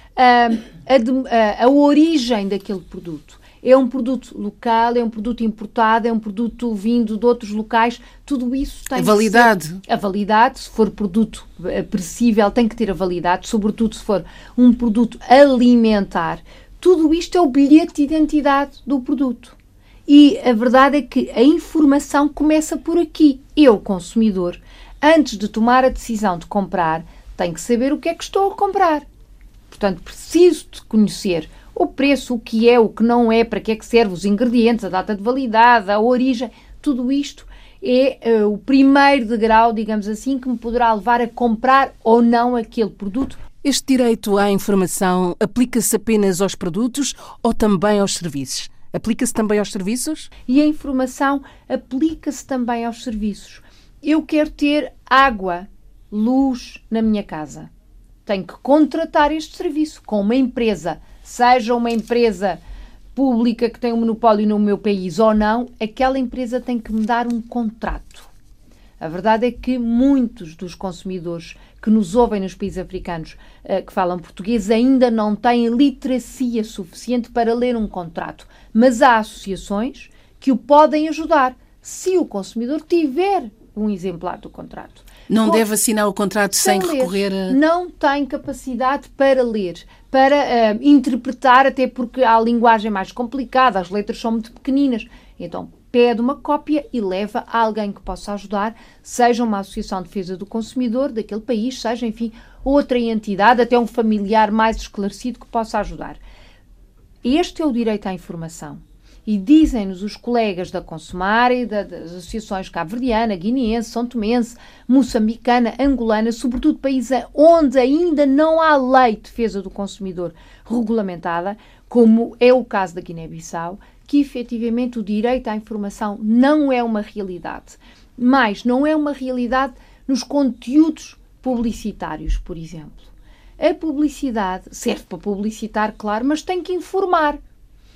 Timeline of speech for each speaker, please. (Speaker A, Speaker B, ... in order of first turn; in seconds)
Speaker A: 0.2-19.6, 20.1-29.1, 29.7-43.4, 50.5-57.7, 58.3-62.6, 63.1-68.3, 69.0-85.6, 86.6-106.2, 107.2-137.4
Speaker B: 8.9-9.8, 43.6-50.3, 85.3-87.6